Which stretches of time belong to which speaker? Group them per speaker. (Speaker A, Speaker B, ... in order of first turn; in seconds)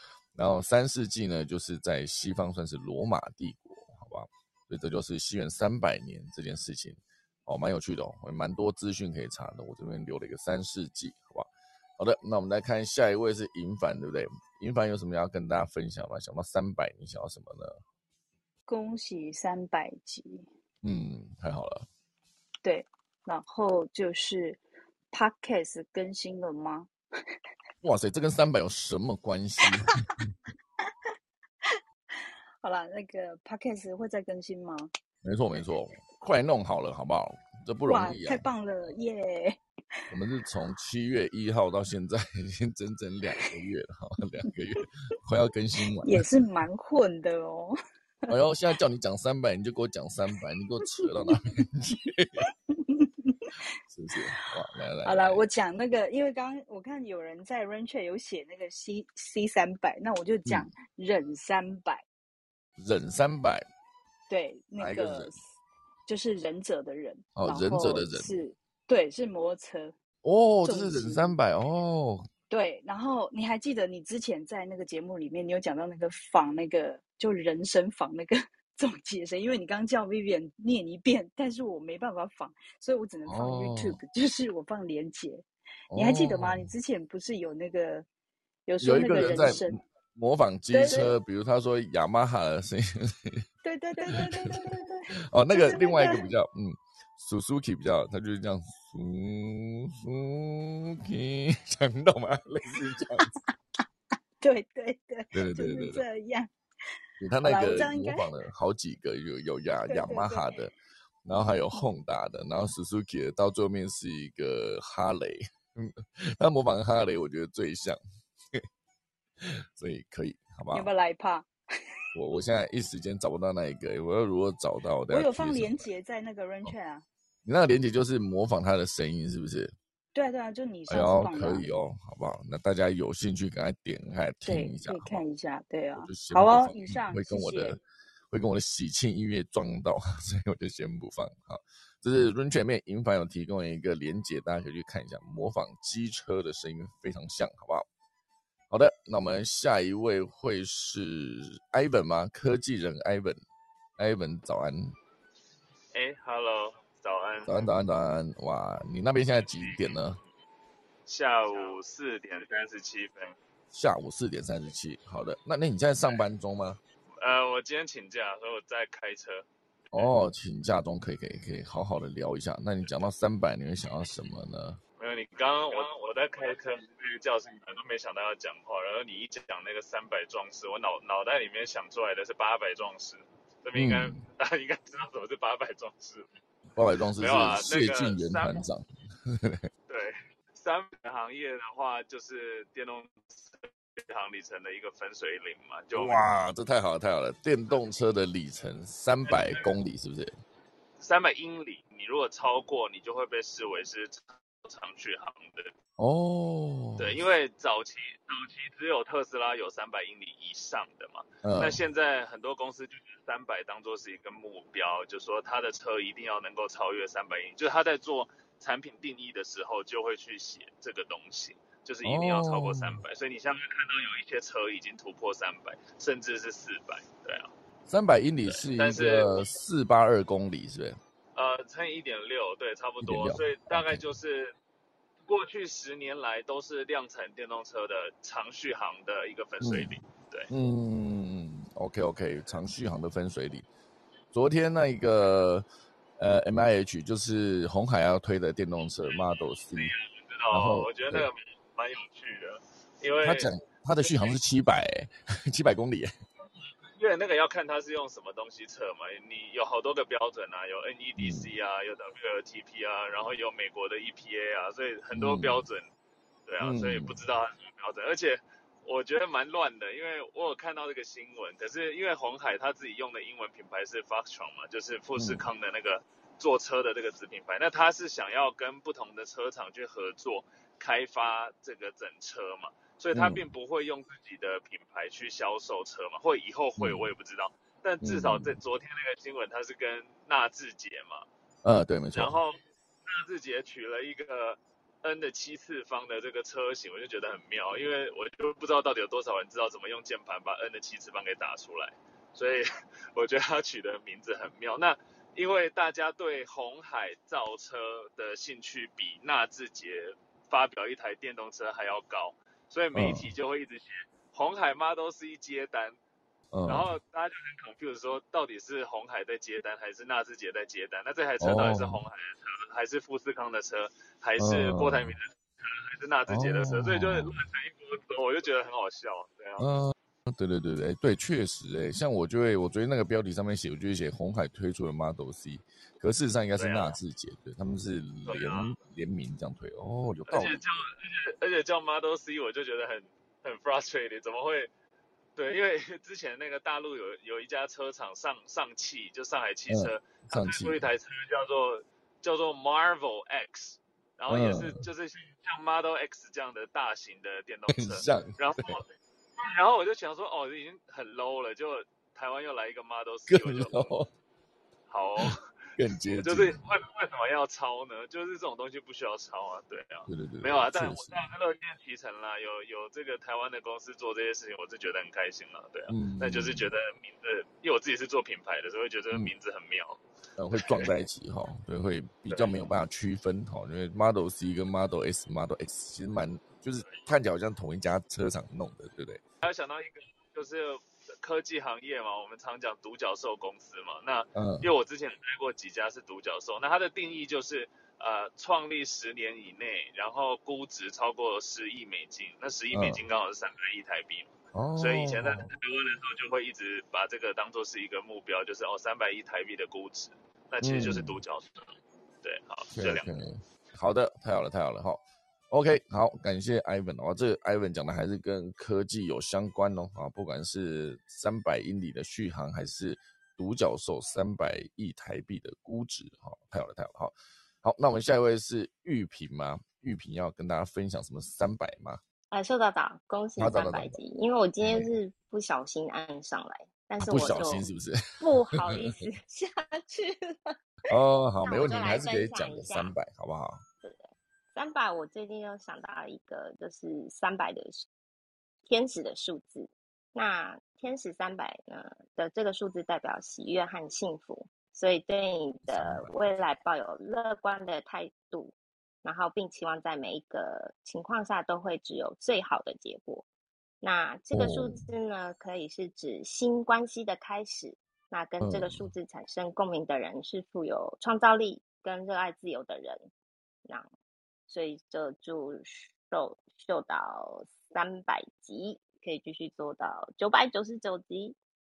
Speaker A: 0.3-17.8, 20.8-21.9, 27.8-30.2, 35.2-38.5, 40.1-46.2, 48.3-52.4, 53.9-55.5, 62.8-63.6, 64.8-65.3, 67.4-68.4, 70.2-72.3, 83.3-84.0, 85.9-86.7, 88.8-93.4, 94.0-94.5, 95.3-103.3, 105.3-106.0, 107.2-110.7, 111.3-118.0, 119.4-120.9, 122.1-125.9, 127.5-129.7, 130.9-135.2, 136.0-137.8, 138.3-147.8, 148.7-153.4, 154.0-154.9, 157.5-160.2, 163.7-166.8, 169.9-174.8, 183.8-184.2, 186.8-189.7, 195.9-200.3, 206.0-207.2, 211.4-211.8, 222.0-223.0, 227.9-231.0, 233.0-234.1, 239.6-240.0, 240.5-243.7, 244.3-245.7, 246.2-249.9, 250.5-251.3, 253.2-256.1, 261.2-261.5, 265.1-265.6, 266.6-267.2, 275.2-275.4, 283.1-283.5, 286.8-287.1, 288.0-288.6, 291.6-292.4, 312.9-313.3, 316.5-316.9, 321.4-322.0, 324.4-325.2, 326.3-327.4, 329.6-340.6, 349.7-350.8, 354.3-354.9, 357.7-358.8, 363.3-364.1, 365.2-366.6, 370.1-371.3, 375.9-376.7, 380.4-389.2, 394.4-394.7, 402.7-403.0, 404.5-405.5, 410.6-411.2, 412.7-432.0, 433.4-434.0, 434.6-434.9, 437.0-438.0, 440.9-443.6, 455.7-456.4, 464.3-464.8, 468.4-468.9
Speaker B: 18.7-20.4, 22.6-26.9, 32.6-34.9, 37.9-39.6, 46.0-47.7, 53.0-53.3, 55.0-62.0, 64.3-65.4, 66.1-69.9, 70.6-71.3, 72.5-88.1, 88.7-89.8, 90.7-91.1, 93.6-96.2, 104.4-106.5, 107.4-108.3, 109.9-110.5, 120.7-121.5, 125.1-127.0, 130.1-131.7, 134.4-137.8
Speaker C: 155.9-157.7, 161.1-163.3, 167.2-170.1, 175.0-186.3, 187.2-188.7, 189.9-196.3, 199.3-199.7, 201.0-205.7, 207.0-227.5, 228.5-229.5, 231.3-234.5, 235.2-240.5, 249.7-253.5, 254.0-254.4, 256.9-265.9, 266.5-291.3, 292.1-316.0, 316.7-329.6, 336.6-337.0, 338.3-338.7, 340.3-344.7, 345.4-358.9, 359.4-364.0, 364.9-365.4, 366.2-380.0, 380.6-380.9, 382.3-382.6, 389.4-413.1
Speaker D: 432.3-437.7, 438.2-440.4, 441.4-442.9, 443.8-447.8, 448.7-463.2, 463.8-473.0, 474.5-481.4